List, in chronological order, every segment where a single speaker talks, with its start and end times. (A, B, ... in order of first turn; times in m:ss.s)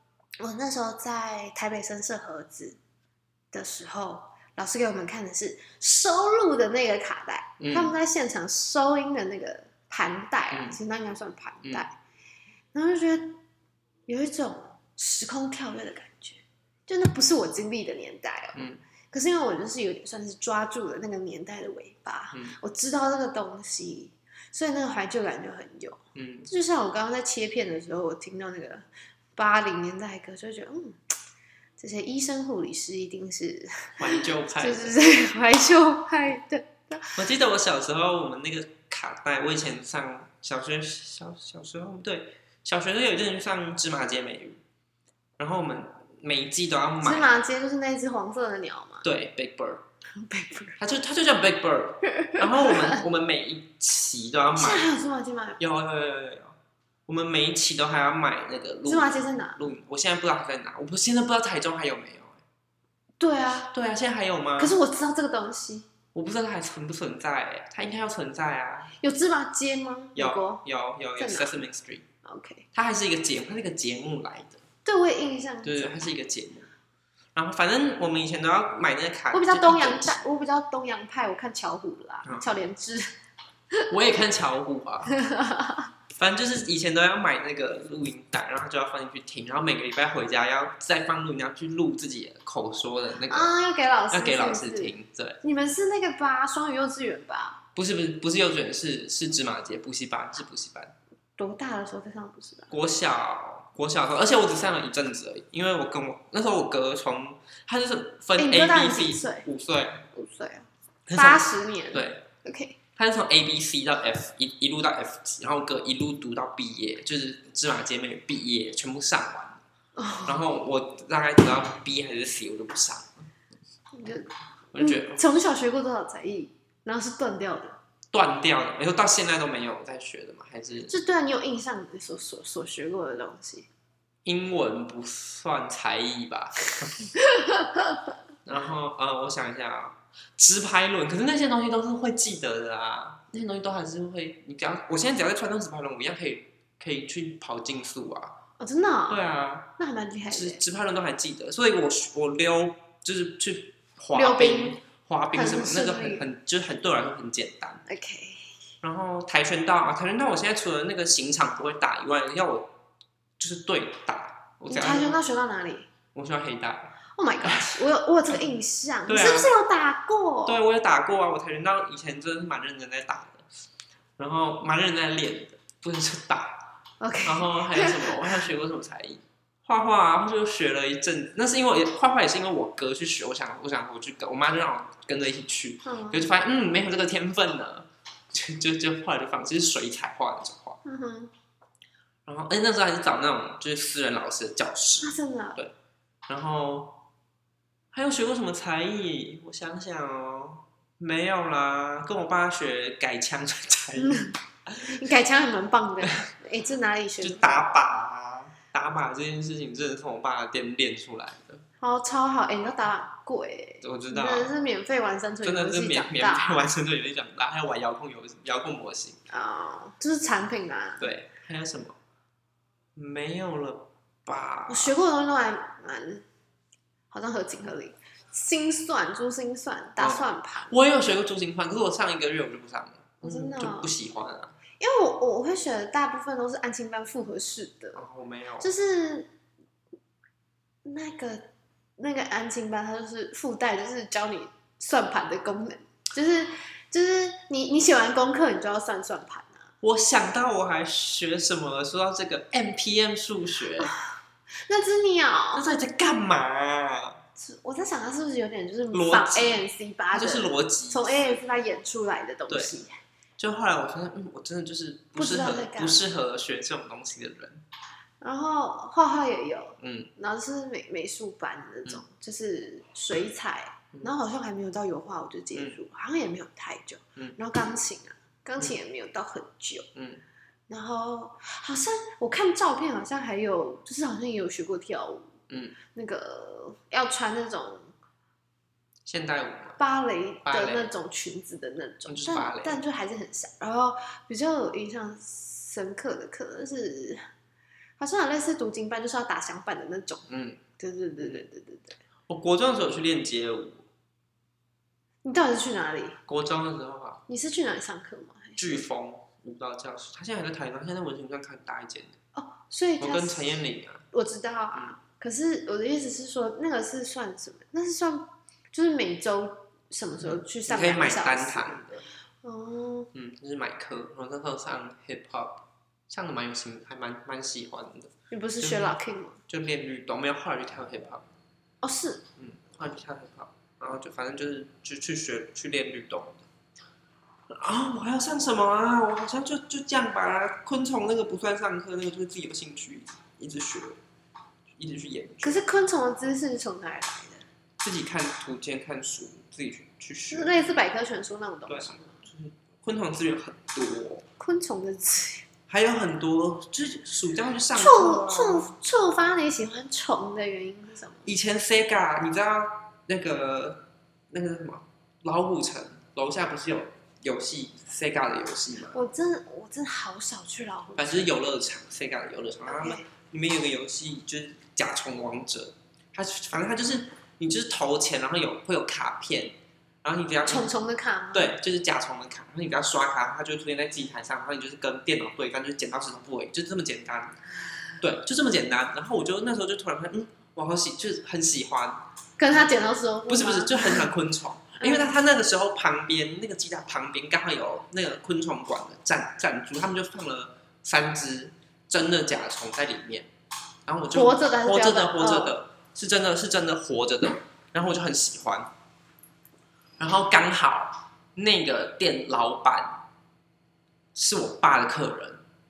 0:00.4-0:02.8 A
0:03.5-0:12.0 A
0:07.6-0:07.9 B
0:10.5-0:10.8 B
0:12.7-0:13.4 A
0:14.1-0:28.8 A
0:18.6-0:18.8 B
0:26.2-0:26.5 B
0:29.4-0:31.0 A
0:31.8-0:37.2 A
0:34.0-0:35.0 B
0:37.2-0:44.6 B
0:45.4-0:47.4 B
0:47.0-0:49.1 A
0:49.0-0:49.8 B
0:50.2-0:50.8 A
0:50.8-0:54.9 B
0:52.1-0:53.0 A
0:54.6-0:55.6 A
0:55.6-0:56.6 B
0:57.1-1:02.4 B
0:58.8-0:59.6 A
1:03.2-1:03.7 A
1:03.7-1:04.8 B
1:04.6-1:05.9 A
1:06.1-1:08.9 B
1:09.0-1:10.6 A
1:10.2-1:12.0 B
1:11.2-1:11.6 A
1:12.2-1:12.6 A
1:12.7-1:14.6 B
1:14.8-1:16.1 A
1:15.6-1:16.7 B
1:17.4-1:20.2 B
1:19.3-1:23.1 A
1:23.9-1:25.2 B
1:25.1-1:25.9 A
1:26.1-1:33.5 B
1:33.3-1:37.6 A
1:34.1-1:35.4 B
1:37.8-1:40.9 B
1:41.4-1:42.7 A
1:42.7-1:50.1 B
1:48.4-1:49.5 A
1:50.1-1:52.8 A
1:51.1-1:52.3 B
1:53.0-1:59.6 B
2:00.0-2:00.4 A
2:00.3-2:03.3 B
2:03.9-2:07.8 A
2:04.7-2:05.2 B
2:08.1-2:10.9 B
2:10.9-2:13.7 A
2:14.2-2:17.1 B
2:17.3-2:17.8 A
2:18.4-2:28.4 B
2:28.6-2:29.2 A
2:29.1-2:29.7 B
2:29.8-2:30.6 A
2:30.3-2:37.8 B
2:34.1-2:34.8 A
2:35.3-2:36.3 A
2:37.9-2:38.5 A
2:38.8-2:42.7 B
2:43.4-2:45.2 B
2:44.7-2:45.9 A
2:46.1-2:47.8 B
2:47.2-2:50.6 A
2:49.1-2:49.5 B
2:50.5-2:53.5 B
2:54.2-2:56.7 B
2:57.0-2:58.4 A
2:57.2-3:10.8 B
3:05.8-3:06.3 A
3:10.8-3:11.3 A
3:12.3-3:15.7 B
3:15.0-3:15.6 A
3:16.3-3:17.0 B
3:17.9-3:25.0 B
3:24.0-3:27.7 A
3:27.2-3:31.6 B
3:31.8-3:36.7 A
3:33.8-3:34.5 B
3:35.4-3:39.2 B
3:39.3-3:41.1 A
3:41.0-3:42.0 B
3:43.0-3:44.9 B
3:44.7-3:46.2 A
3:47.1-3:50.8 A
3:50.0-3:54.6 B
3:53.2-3:53.9 A
3:54.8-3:58.0 A
3:58.0-3:58.7 B
3:58.6-3:59.3 A
4:00.8-4:09.7 A
4:09.8-4:13.9 B
4:14.7-4:15.6 A
4:15.6-4:17.2 B
4:17.4-4:23.0 A
4:18.9-4:21.4 B
4:23.4-4:27.6 B
4:25.2-4:26.0 A
4:28.2-4:39.9 A
4:29.8-4:30.1 B
4:40.0-4:40.2 B
4:40.7-4:45.4 A
4:45.5-4:45.8 B
4:45.9-4:47.9 A
4:49.1-4:49.8 B
4:49.8-4:57.2 A
4:50.4-4:50.9 B
4:52.1-4:52.8 B
4:58.0-5:00.3 A
5:00.3-5:00.6 B
5:00.8-5:02.0 A
5:02.3-5:03.9 B
5:05.2-5:06.2 A
5:06.3-5:07.2 B
5:07.3-5:08.8 A
5:08.6-5:12.2 B
5:12.4-5:13.5 A
5:13.0-5:14.0 B
5:14.1-5:21.9 A
5:20.2-5:22.0 B
5:22.4-5:23.1 A
5:23.1-5:28.9 B
5:28.3-5:29.4 A
5:29.5-5:31.3 B
5:31.8-5:32.2 A
5:32.4-5:36.5 B
5:37.5-5:44.0 B
5:44.8-5:45.6 B
5:45.4-5:47.4 A
5:47.8-5:50.6 B
5:50.3-5:52.2 A
5:51.7-5:54.2 B
5:54.4-5:55.5 A
5:55.7-5:58.7 B
5:57.8-6:01.3 A
6:01.2-6:09.0 B
6:08.9-6:11.3 A
6:11.0-6:20.7 B
6:12.7-6:13.1 A
6:20.4-6:21.6 A
6:21.3-6:27.4 B
6:28.0-6:32.0 B
6:32.4-6:34.1 A
6:33.3-6:43.3 B
6:34.8-6:35.1 A
6:43.9-6:48.7 B
6:44.1-6:45.6 A
6:50.0-6:53.0 B
6:54.2-6:55.4 B